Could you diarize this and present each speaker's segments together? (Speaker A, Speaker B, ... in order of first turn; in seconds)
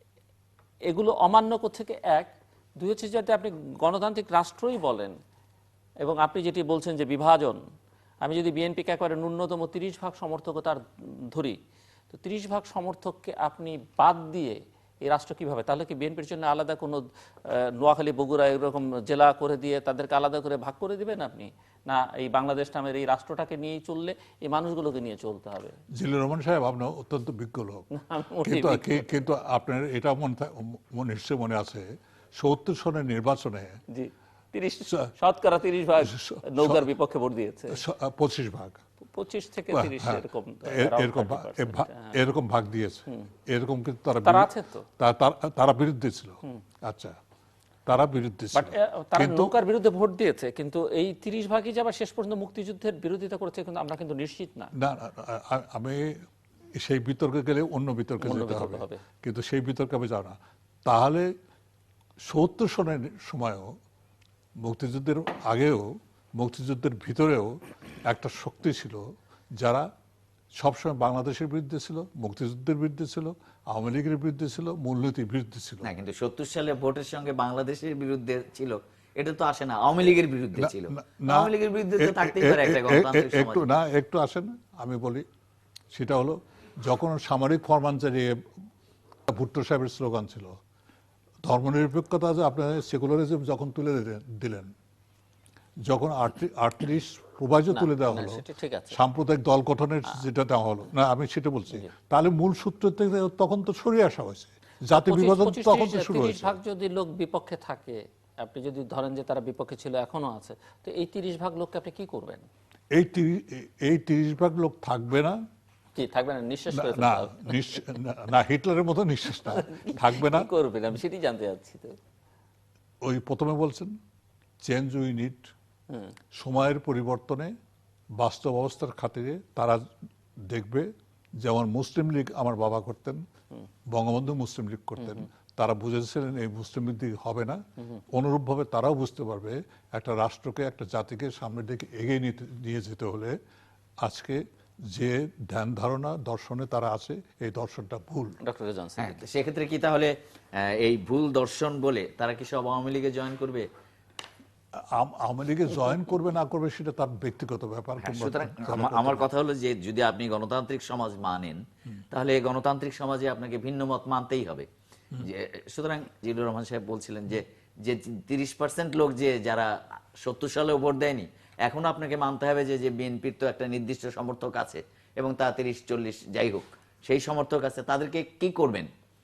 Speaker A: 0.9-5.2, 6.0-7.6, 8.2-11.6, 12.1-25.8, 27.9-29.1, 33.9-37.8, 39.1-42.1, 44.2-44.9, 48.5-54.7, 58.2-59.0, 97.7-99.0, 104.9-112.5, 116.0-117.8, 119.4-122.0, 135.0-135.2, 148.4-149.2
Speaker B: 26.0-27.9, 28.4-31.9, 32.4-33.8, 36.0-36.9, 37.7-38.8, 39.7-47.2, 47.9-49.5, 54.8-56.2, 56.8-61.3, 62.3-63.8, 64.6-69.0, 69.6-69.9, 70.6-75.9, 80.6-85.2, 85.9-88.4, 89.3-90.5, 91.4-94.7, 95.8-106.6, 112.9-115.4, 116.7-120.5, 123.0-124.0, 124.6-125.5, 126.3-127.5, 128.2-129.8, 130.5-130.9, 131.4-133.2, 133.9-143.4, 144.0-144.4, 144.9-148.4, 154.9-159.2
Speaker C: 75.8-83.7, 149.0-153.7, 158.0-164.7, 165.2-178.9